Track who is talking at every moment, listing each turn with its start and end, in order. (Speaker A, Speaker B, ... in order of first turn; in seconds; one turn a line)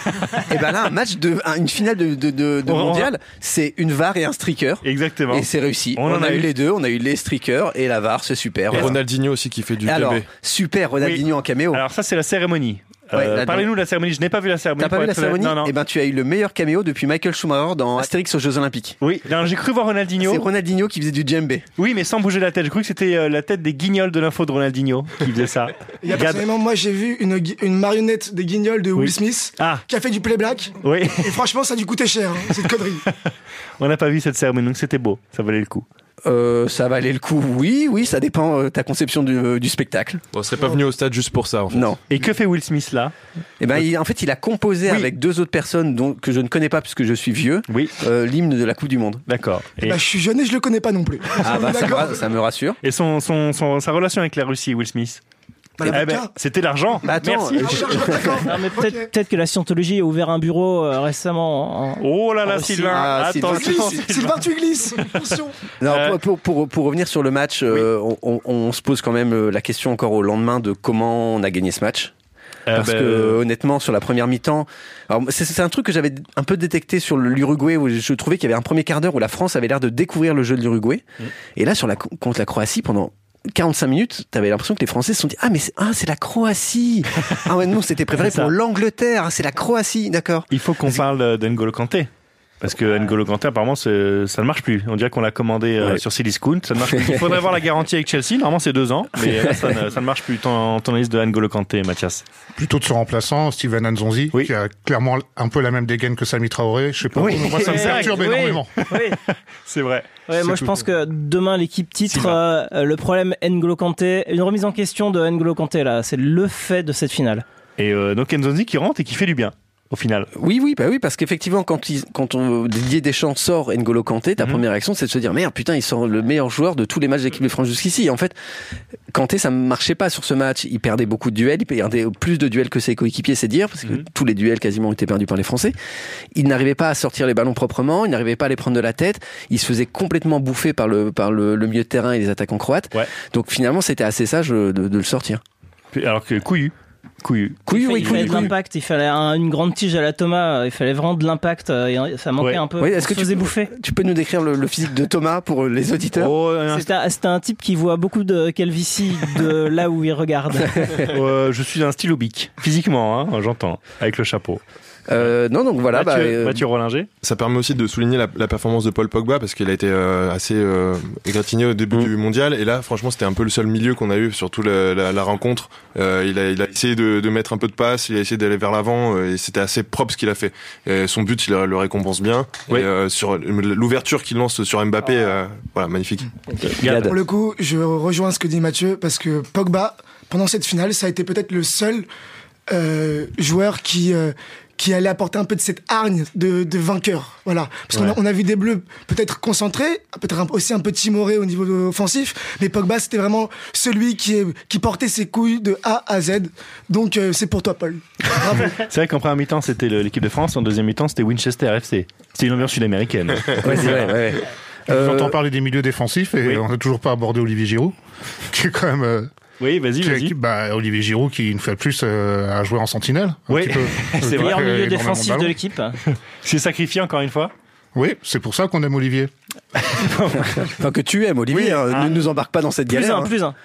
Speaker A: 0.1-0.4
Speaker B: 0.4-9.0
Speaker A: 2.6-3.1
Speaker A: 4.8-6.5
Speaker C: 8.7-10.2
Speaker B: 9.8-11.8
Speaker A: 11.0-15.7
Speaker B: 13.1-13.7
Speaker B: 14.8-19.0
Speaker A: 19.0-20.4
Speaker B: 20.2-21.7
Speaker A: 21.8-26.4
Speaker D: 26.0-33.0
Speaker A: 28.9-29.8
Speaker A: 30.8-31.3
Speaker A: 33.8-35.9
Speaker B: 36.2-40.2
Speaker C: 40.3-41.9
Speaker B: 41.7-42.0
Speaker A: 42.1-43.1
Speaker B: 43.6-49.2
Speaker A: 47.7-47.9
Speaker A: 49.3-50.0
Speaker D: 49.8-52.2
Speaker B: 51.4-52.8
Speaker A: 52.8-55.2
Speaker D: 55.8-56.3
Speaker A: 55.9-58.1
Speaker B: 57.0-58.4
Speaker D: 57.5-59.1
Speaker E: 58.4-62.9
Speaker A: 62.0-64.3
Speaker B: 62.9-64.0
Speaker D: 63.4-65.6
Speaker B: 65.8-72.1
Speaker A: 65.8-66.2
Speaker A: 72.7-73.4
Speaker B: 72.7-81.0
Speaker B: 81.5-90.5
Speaker A: 88.1-88.5
Speaker A: 90.5-92.1
Speaker A: 92.6-102.2
Speaker F: 102.6-108.7
Speaker A: 107.1-110.1
Speaker E: 107.4-109.2
Speaker E: 110.3-117.4
Speaker F: 110.4-110.7
Speaker A: 112.1-112.4
Speaker A: 117.8-120.3
Speaker B: 120.3-128.3
Speaker B: 129.1-135.7
Speaker B: 136.3-145.4
Speaker A: 145.9-148.5
Speaker B: 147.7-148.5
Speaker E: 147.7-153.7
Speaker B: 152.8-156.3
Speaker A: 156.1-156.9
Speaker E: 156.7-161.0
Speaker A: 161.1-164.6
Speaker B: 165.1-166.6
Speaker A: 165.9-167.1
Speaker C: 167.2-186.3
Speaker A: 186.8-187.1
Speaker B: 186.8-187.2
Speaker D: 187.0-192.1
Speaker D: 192.7-208.8
Speaker A: 197.9-198.2
Speaker A: 208.6-214.1
Speaker B: 213.6-215.3
Speaker F: 214.9-217.9
Speaker F: 218.5-219.3
Speaker A: 219.6-220.3
Speaker F: 220.0-225.6
Speaker A: 223.5-224.6
Speaker E: 224.3-226.0
Speaker A: 226.4-227.5
Speaker F: 227.9-229.3
Speaker A: 229.8-230.7
Speaker B: 230.5-233.3
Speaker A: 231.5-232.2
Speaker E: 232.9-233.6